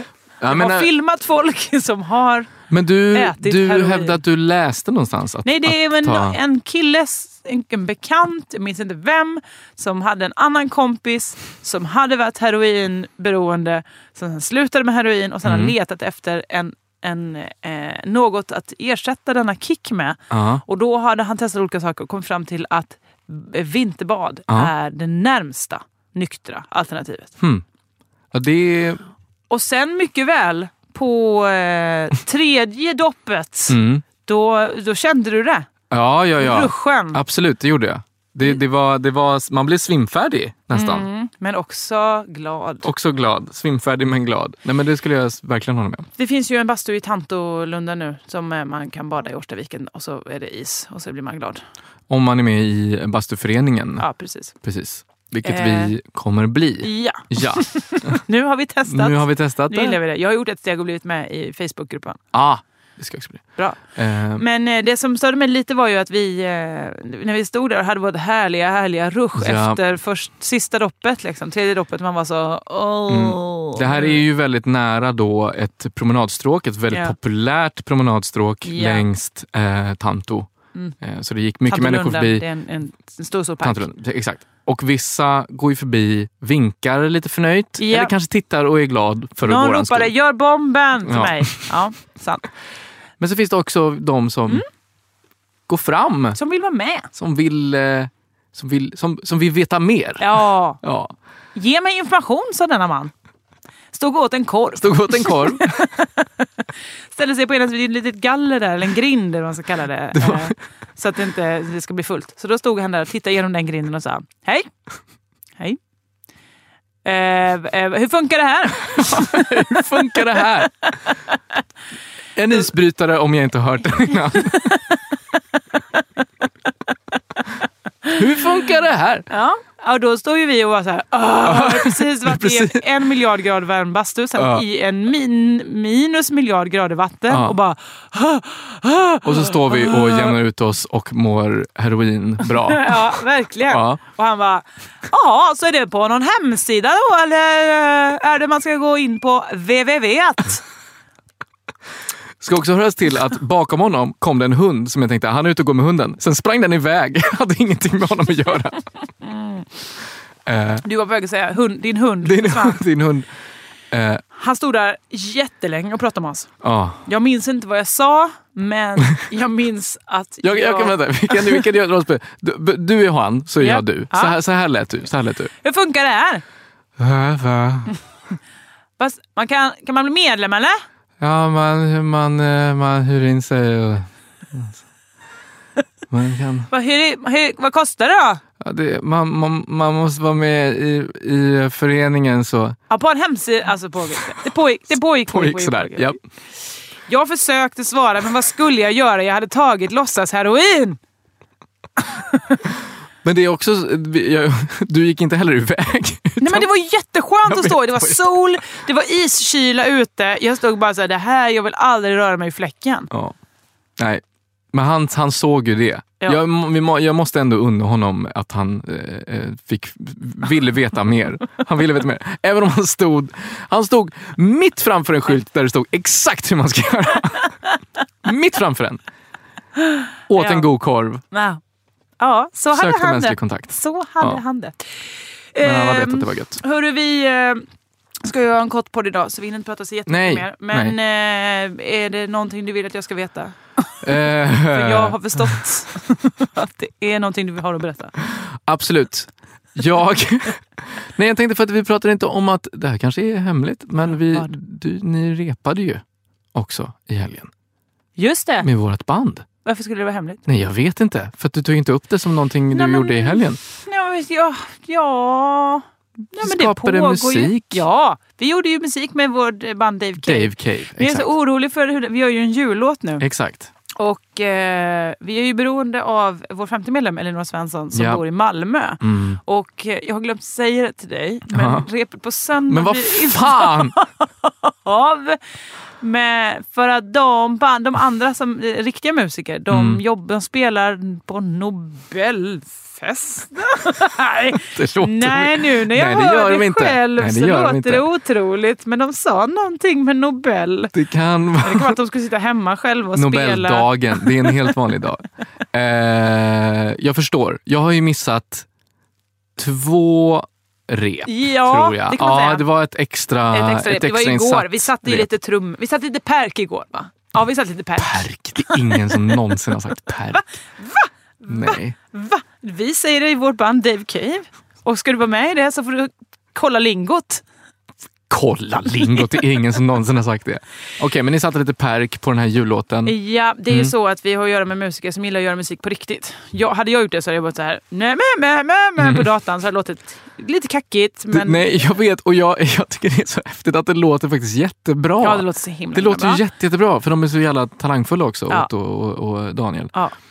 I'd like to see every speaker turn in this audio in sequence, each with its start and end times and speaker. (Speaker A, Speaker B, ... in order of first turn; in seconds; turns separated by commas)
Speaker A: 0.4-0.9, Speaker B: 0.5-2.5, Speaker A: 2.7-6.4, Speaker B: 3.1-4.2, Speaker B: 5.4-27.3, Speaker A: 15.4-15.7, Speaker A: 20.3-20.6, Speaker A: 27.4-27.6, Speaker A: 28.3-29.0, Speaker B: 29.5-35.7, Speaker A: 33.7-34.0, Speaker A: 35.9-41.1, Speaker B: 36.4-37.2, Speaker B: 40.7-42.9, Speaker A: 42.8-46.1, Speaker B: 46.2-51.6, Speaker A: 52.1-54.1, Speaker B: 54.0-54.5, Speaker A: 54.6-58.2, Speaker B: 55.4-55.9, Speaker B: 56.8-62.2, Speaker A: 58.9-60.0, Speaker A: 62.3-64.4, Speaker B: 64.4-74.2, Speaker A: 69.4-69.8, Speaker A: 73.1-82.4, Speaker B: 76.9-77.2, Speaker B: 78.6-79.0, Speaker B: 81.7-83.9, Speaker A: 83.6-90.1, Speaker B: 87.8-88.1, Speaker B: 89.4-92.4, Speaker A: 91.0-91.7, Speaker A: 93.2-94.6, Speaker A: 95.7-96.4, Speaker B: 96.3-97.1, Speaker A: 97.1-101.1, Speaker B: 100.2-100.8, Speaker B: 101.5-103.1, Speaker B: 103.9-106.3, Speaker A: 104.8-105.9, Speaker B: 107.1-114.7, Speaker A: 110.1-110.5, Speaker B: 117.0-120.5, Speaker A: 119.0-120.8, Speaker A: 122.3-124.8, Speaker B: 124.4-124.8, Speaker A: 128.1-129.3, Speaker B: 129.3-140.3, Speaker A: 131.4-132.9, Speaker A: 134.4-134.6, Speaker A: 137.3-137.6, Speaker A: 139.2-143.1, Speaker B: 142.6-150.6, Speaker A: 143.7-144.0, Speaker A: 152.4-158.8, Speaker B: 159.2-159.7, Speaker A: 160.4-160.8, Speaker B: 160.8-162.8, Speaker A: 162.2-163.3, Speaker A: 163.9-164.2, Speaker B: 164.3-166.5, Speaker A: 166.6-167.0, Speaker B: 167.0-171.6, Speaker A: 170.4-175.5, Speaker B: 173.6-174.4, Speaker B: 175.6-176.4, Speaker A: 177.0-177.9, Speaker B: 179.0-180.8, Speaker A: 181.2-184.8, Speaker A: 186.1-186.7, Speaker B: 186.7-188.4, Speaker A: 188.6-192.8, Speaker B: 192.9-196.2, Speaker A: 195.2-196.2, Speaker B: 197.1-201.0, Speaker A: 203.2-206.7, Speaker B: 206.4-213.1, Speaker A: 207.4-208.4, Speaker A: 213.1-213.4, Speaker A: 214.0-227.6, Speaker A: 228.2-229.0, Speaker B: 229.9-230.7, Speaker A: 230.3-231.2, Speaker B: 231.3-231.6, Speaker B: 232.2-234.8, Speaker A: 232.7-234.4, Speaker B: 235.5-237.6, Speaker A: 235.6-236.6, Speaker B: 238.2-243.6, Speaker A: 240.1-241.0, Speaker A: 244.0-245.6, Speaker B: 244.6-248.2, Speaker A: 248.6-256.0, Speaker B: 254.1-254.5, Speaker A: 256.5-257.5, Speaker B: 258.2-258.7, Speaker A: 258.6-259.4, Speaker B: 259.6-260.4, Speaker A: 260.5-263.6, Speaker B: 262.7-273.2, Speaker A: 266.3-267.8, Speaker A: 270.2-271.3, Speaker A: 273.2-273.7, Speaker B: 273.9-285.4, Speaker A: 277.9-278.2, Speaker A: 279.0-279.4, Speaker A: 281.5-281.9, Speaker A: 282.7-283.9, Speaker B: 286.0-300.9, Speaker A: 289.7-290.0, Speaker A: 294.7-298.0, Speaker A: 300.9-301.9, Speaker B: 301.6-304.6, Speaker A: 303.1-308.6, Speaker A: 309.6-315.3, Speaker B: 311.2-312.7, Speaker B: 313.5-319.4, Speaker A: 318.0-320.4, Speaker B: 320.3-327.4, Speaker A: 321.5-322.0, Speaker A: 328.3-333.2, Speaker B: 329.1-329.4, Speaker B: 333.1-341.8, Speaker A: 339.0-339.2, Speaker A: 341.3-349.9, Speaker B: 345.2-346.4